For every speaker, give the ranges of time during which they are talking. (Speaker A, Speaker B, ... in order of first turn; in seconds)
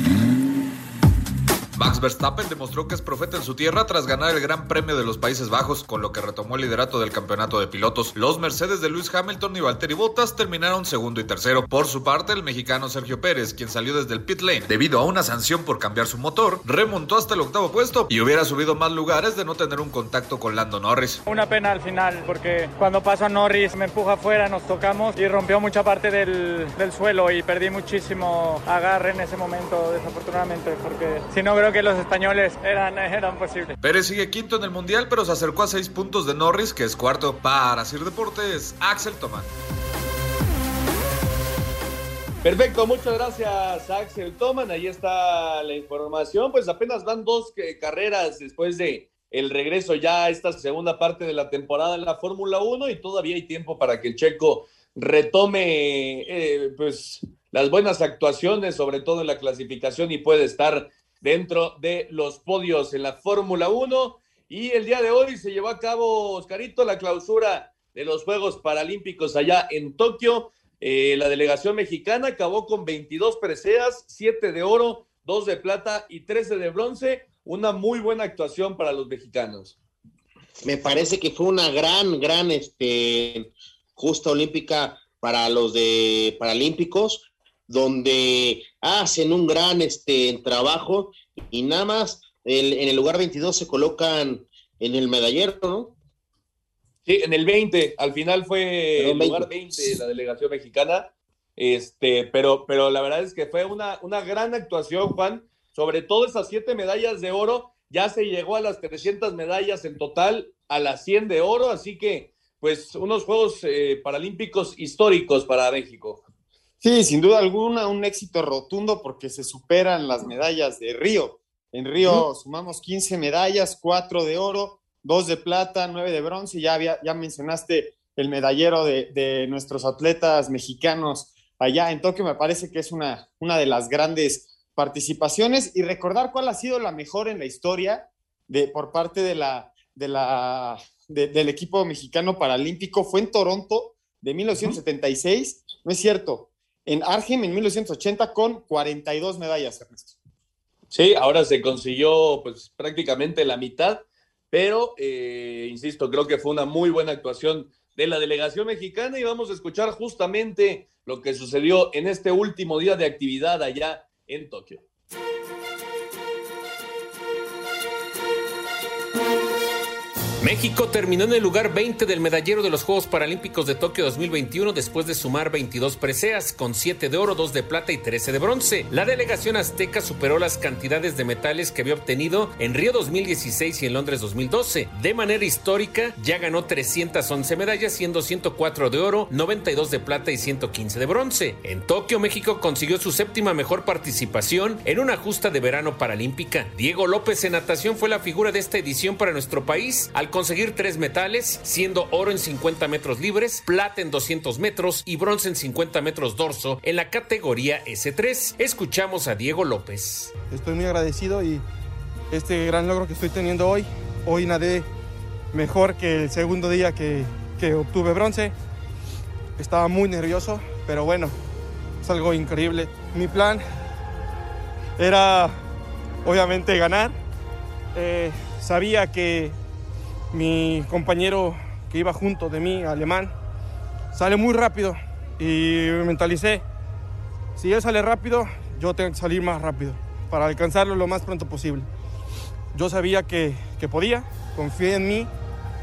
Speaker A: 1.8-21.2, 33.8-39.5
Speaker B: 21.3-33.8
Speaker C: 42.4-79.8, 97.1-101.1, 101.6-116.2, 150.9-164.8
Speaker D: 80.6-95.9, 99.0-99.8
Speaker E: 116.8-150.2
Speaker F: 170.4-210.3
Speaker G: 210.5-211.6, 212.3-214.9, 215.5-218.5, 219.6-221.4, 222.0-223.6, 225.0-225.6, 226.2-227.2, 227.9-229.6, 230.3-233.3, 234.1-236.6, 237.6-241.9, 242.7-245.3